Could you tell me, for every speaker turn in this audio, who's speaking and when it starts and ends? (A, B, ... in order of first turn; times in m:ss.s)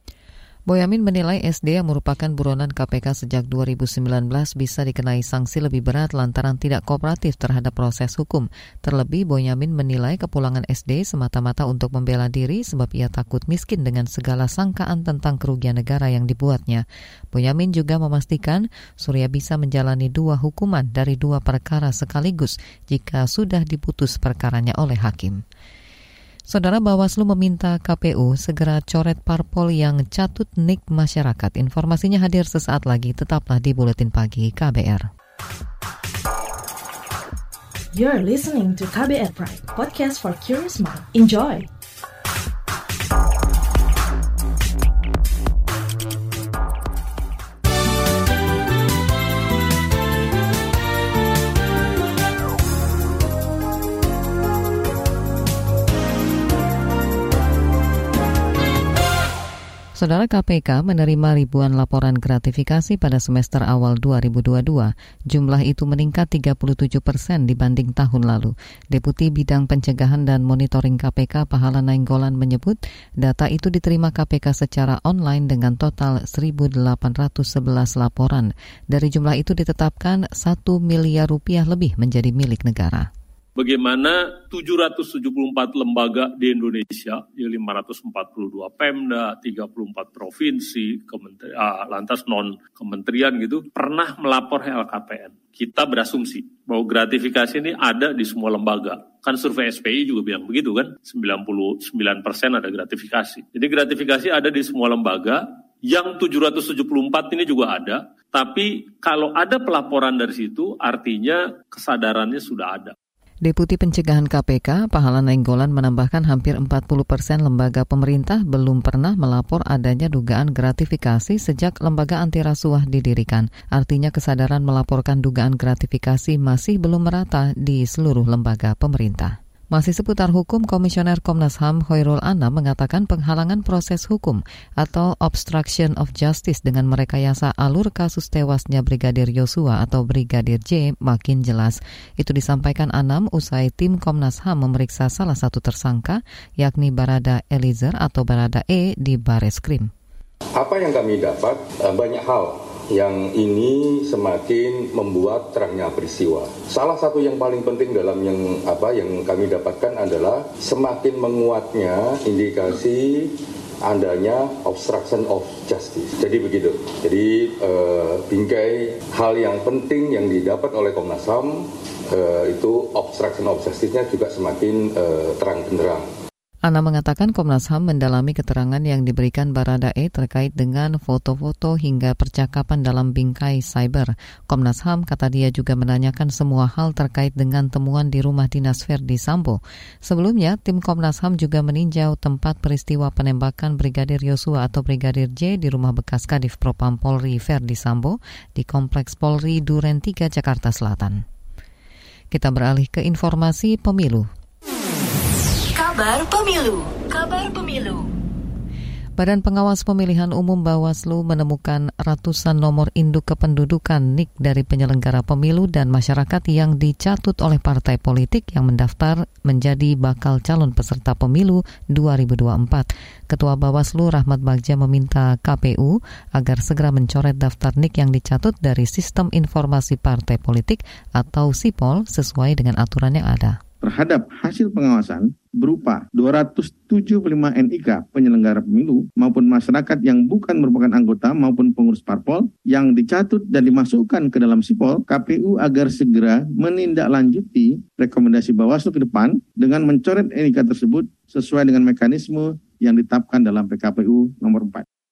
0:00.7-0:25.4 A
0:26.5-0:35.1 A
0:37.9-0:41.7 B
1:00.0-1:23.1 A
1:23.6-1:52.9 C
1:53.4-2:29.9 A
2:30.6-2:56.1 D
2:56.6-3:21.2 A
3:22.3-3:24.3 A
3:25.7-3:28.1 E
3:29.2-3:53.6 A
3:53.8-4:14.8 F